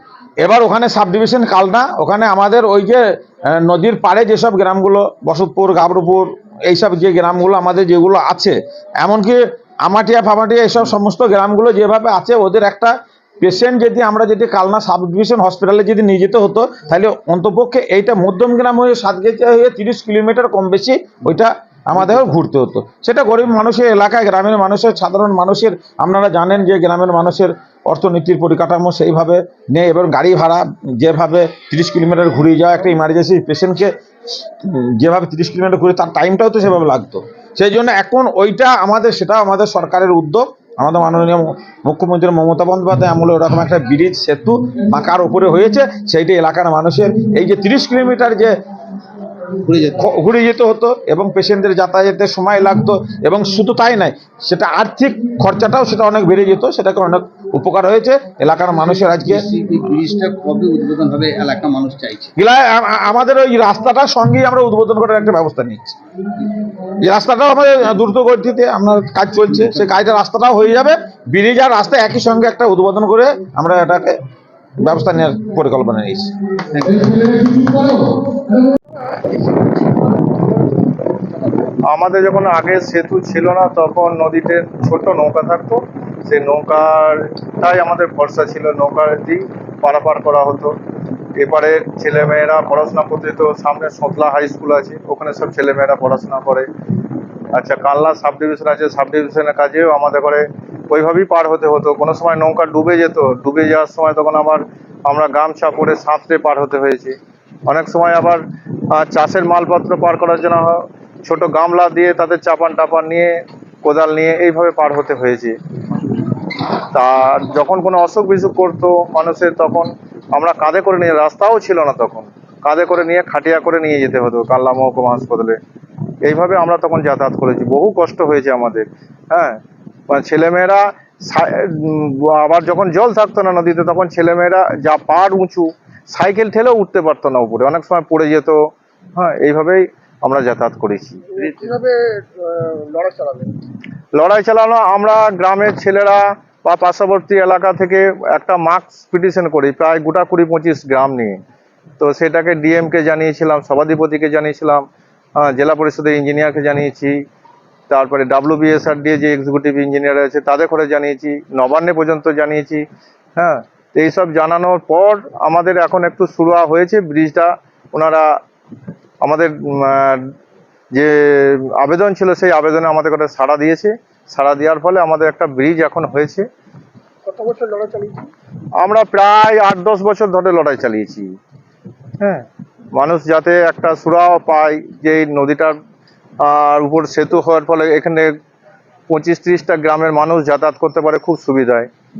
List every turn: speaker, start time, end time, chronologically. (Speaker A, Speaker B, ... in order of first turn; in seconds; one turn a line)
Speaker A: 0.4-33.9
Speaker A: 34.6-48.5
Speaker B: 49.7-50.0
Speaker A: 49.9-59.4
Speaker B: 59.3-62.3
Speaker A: 62.4-66.0
Speaker A: 67.0-74.2
Speaker A: 74.8-76.3
Speaker B: 76.8-78.3
Speaker C: 78.9-81.2
Speaker D: 81.9-90.7
Speaker D: 91.4-96.7
Speaker D: 97.5-107.2
Speaker D: 107.7-108.4
Speaker D: 108.9-115.5
Speaker D: 116.3-125.6
Speaker D: 126.2-138.6
Speaker D: 139.2-141.4
Speaker C: 141.3-143.5
Speaker D: 144.2-151.4
Speaker D: 152.0-154.8
Speaker D: 155.4-157.2
Speaker D: 157.9-162.8
Speaker D: 163.4-168.2
Speaker D: 169.2-170.3
Speaker D: 170.9-176.4
Speaker C: 177.2-178.3
Speaker D: 178.8-181.3
Speaker D: 182.2-185.7
Speaker D: 186.4-188.3
Speaker D: 189.1-191.9